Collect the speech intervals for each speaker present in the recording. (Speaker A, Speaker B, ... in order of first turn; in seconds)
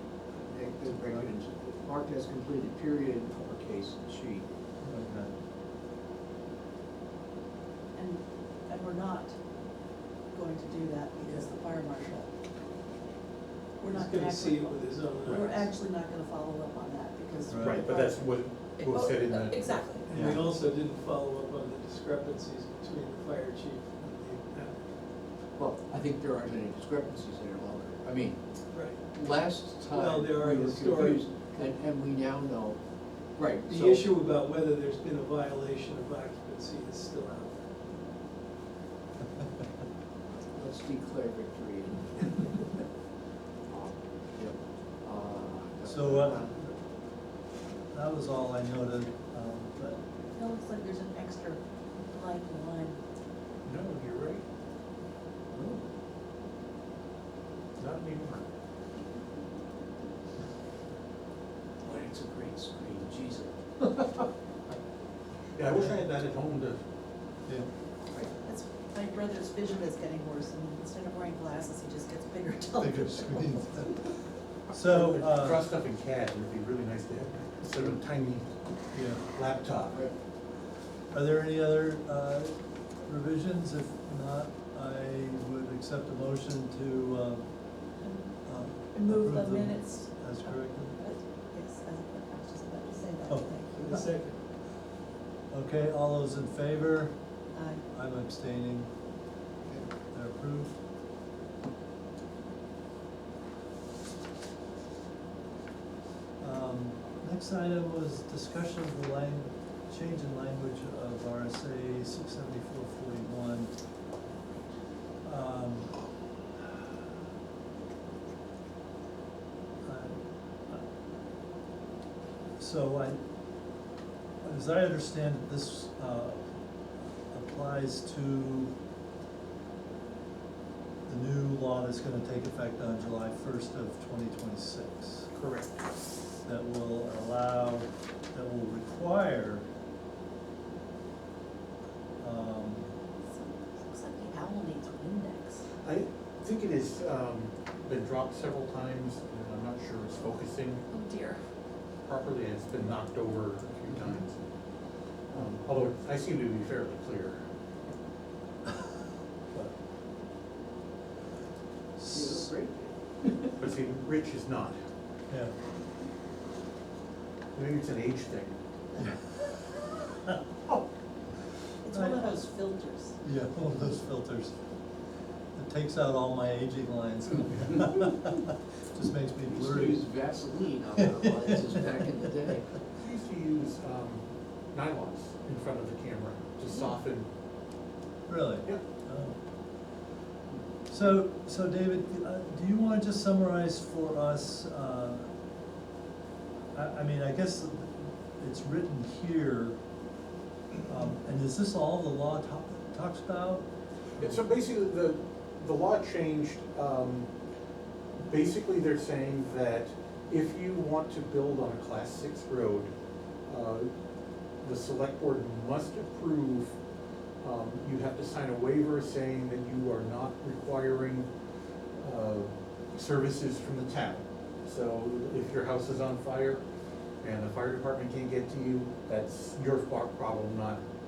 Speaker A: 0.3-4.4, 25.6-28.4, 29.0-32.8, 33.4-34.1, 40.5-42.7, 43.7-46.5, 55.5-55.8, 61.8-63.5, 79.8-80.1, 162.1-163.3, 179.5-182.7
Speaker B: 0.9-1.3, 4.8-5.3, 17.5-17.9, 20.1-20.5, 45.9-46.8, 47.9-50.0, 65.7-66.0, 72.8-74.2, 74.7-75.7, 78.9-79.2, 81.1-87.5, 88.5-91.0, 93.3-94.1, 95.5-97.2, 97.9-98.9, 100.1-100.8, 106.4-113.8, 115.2-115.9, 119.8-120.9, 122.6-123.2, 124.4-126.4, 127.3-128.7, 131.1-135.2, 136.4-139.7, 142.2-142.9, 162.0-162.5, 165.3-165.5, 169.0-169.3, 171.9-172.4, 173.2-174.5, 175.6-180.1, 181.0-181.6, 188.3-189.4, 190.9-195.3, 196.7-199.8, 200.9-203.7
Speaker C: 7.9-9.3, 10.3-12.3, 13.8-20.1, 50.4-53.0, 68.4-73.4, 88.0-88.3, 88.9-93.9, 97.5-97.8, 143.3-145.7, 150.9-151.4, 171.8-173.2
Speaker D: 11.2-11.5, 13.8-15.7, 20.1-24.8, 28.7-29.0, 29.9-31.2, 33.6-37.6, 93.8-94.4
Speaker E: 17.6-19.9, 53.6-54.4, 57.8-58.5, 65.5-66.8, 74.9-78.5, 79.2-80.0, 135.3-135.8, 145.8-151.0, 152.0-154.4, 155.3-157.4, 163.6-164.8, 167.5-168.6, 183.0-187.3, 204.2-207.3, 208.2-212.9, 213.4-213.9, 214.6-216.8, 217.4-221.3, 222.0-226.6, 227.2-230.8